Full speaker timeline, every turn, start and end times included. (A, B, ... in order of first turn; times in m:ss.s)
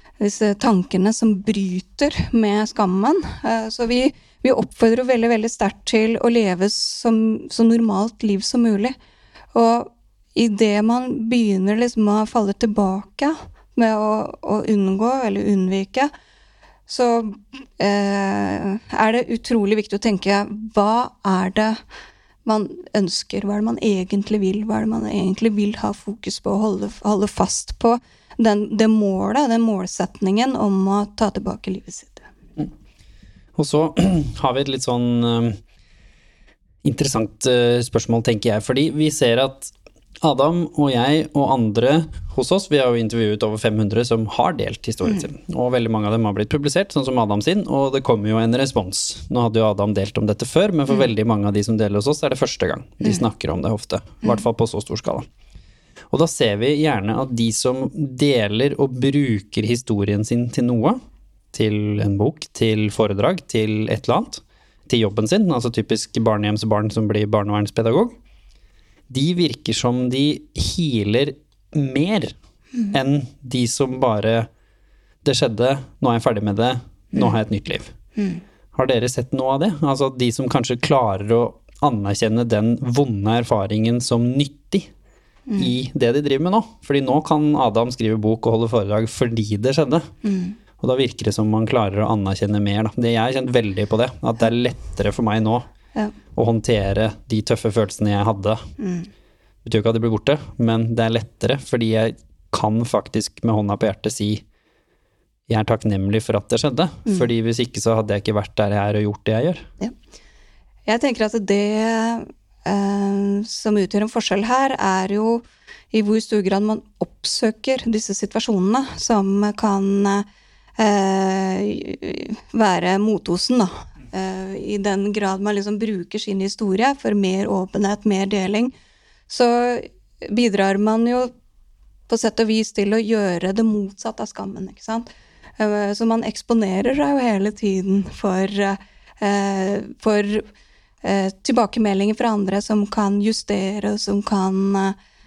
0:00.2-0:09.0 A
0:09.5-0:16.1 A
0:16.9-0:21.8 A
0:22.4-0:32.3 A
0:33.6-0:35.6 B
0:36.8-0:55.3 B
0:56.1-1:01.0 B
1:01.5-1:08.2 B
1:09.1-1:12.3 B
1:12.9-1:14.5 B
1:15.2-1:17.9 B
1:18.7-1:24.9 B
1:25.6-1:30.1 B
1:30.2-1:30.6 A
1:30.8-1:35.7 B
1:36.3-1:38.7 B
1:38.8-1:39.1 A
1:39.6-1:44.4 B
1:45.5-1:49.7 B
1:50.9-2:00.3 A
2:00.8-2:08.7 A
2:09.3-2:11.3 A
2:12.1-2:20.4 A
2:21.0-2:25.0 A